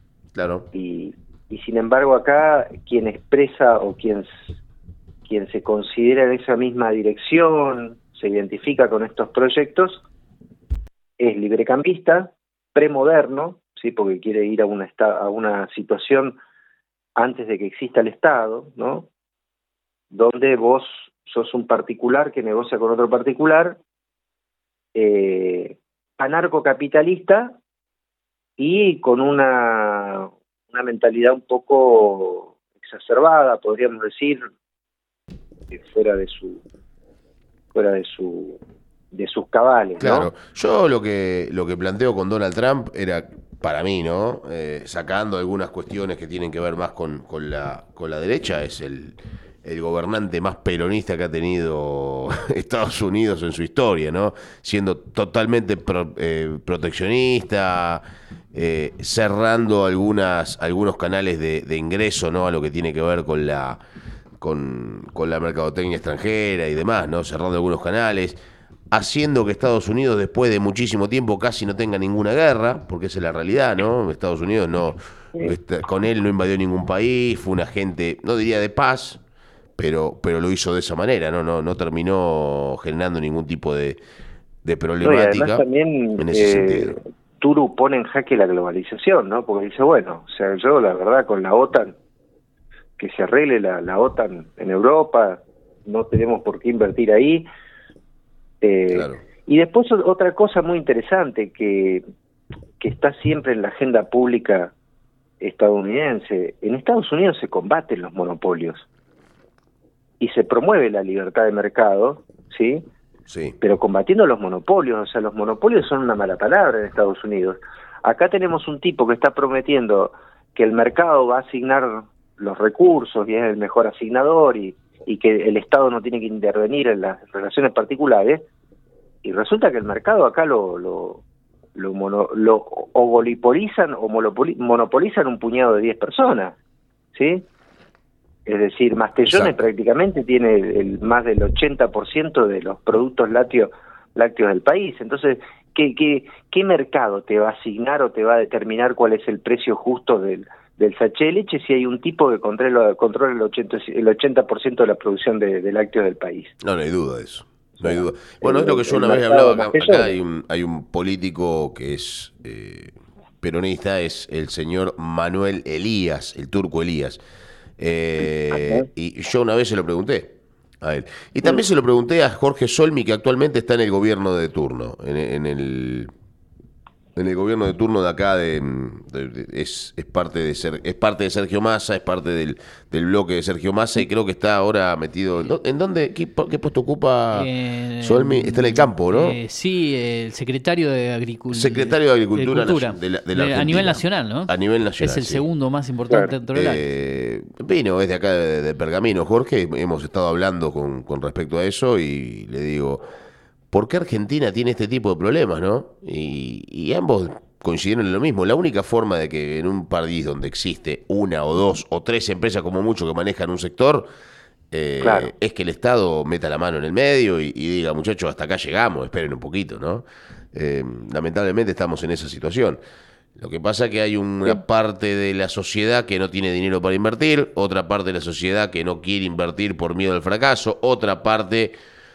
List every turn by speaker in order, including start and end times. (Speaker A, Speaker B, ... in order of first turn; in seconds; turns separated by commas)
Speaker A: 0.3-0.7, Speaker B: 0.7-4.4, Speaker B: 5.2-10.0, Speaker B: 11.2-16.4, Speaker B: 17.2-19.1, Speaker B: 20.1-23.8, Speaker B: 24.9-27.6, Speaker B: 28.6-34.5, Speaker B: 35.7-36.6, Speaker B: 37.7-38.6, Speaker B: 39.1-40.3, Speaker A: 40.0-63.8, Speaker A: 64.4-68.4, Speaker A: 68.9-79.2, Speaker A: 79.8-84.0, Speaker A: 84.6-85.6, Speaker B: 85.0-92.0, Speaker A: 86.2-87.0, Speaker B: 93.0-97.5, Speaker B: 98.6-102.0, Speaker A: 98.9-99.2, Speaker B: 102.8-104.7, Speaker B: 105.4-108.8, Speaker B: 110.2-112.8, Speaker A: 113.3-113.5, Speaker B: 113.6-128.4, Speaker B: 129.2-131.2, Speaker B: 131.8-136.6, Speaker B: 137.1-137.5, Speaker B: 138.4-156.5, Speaker A: 139.2-139.5, Speaker A: 156.6-167.2, Speaker B: 157.8-160.1, Speaker A: 167.8-176.1, Speaker B: 168.5-168.8, Speaker A: 177.2-187.5, Speaker C: 187.3-196.8, Speaker A: 188.0-189.4, Speaker A: 191.5-195.4, Speaker A: 196.5-203.0, Speaker A: 203.7-214.1, Speaker A: 214.7-222.8, Speaker B: 215.0-215.3, Speaker A: 223.3-231.7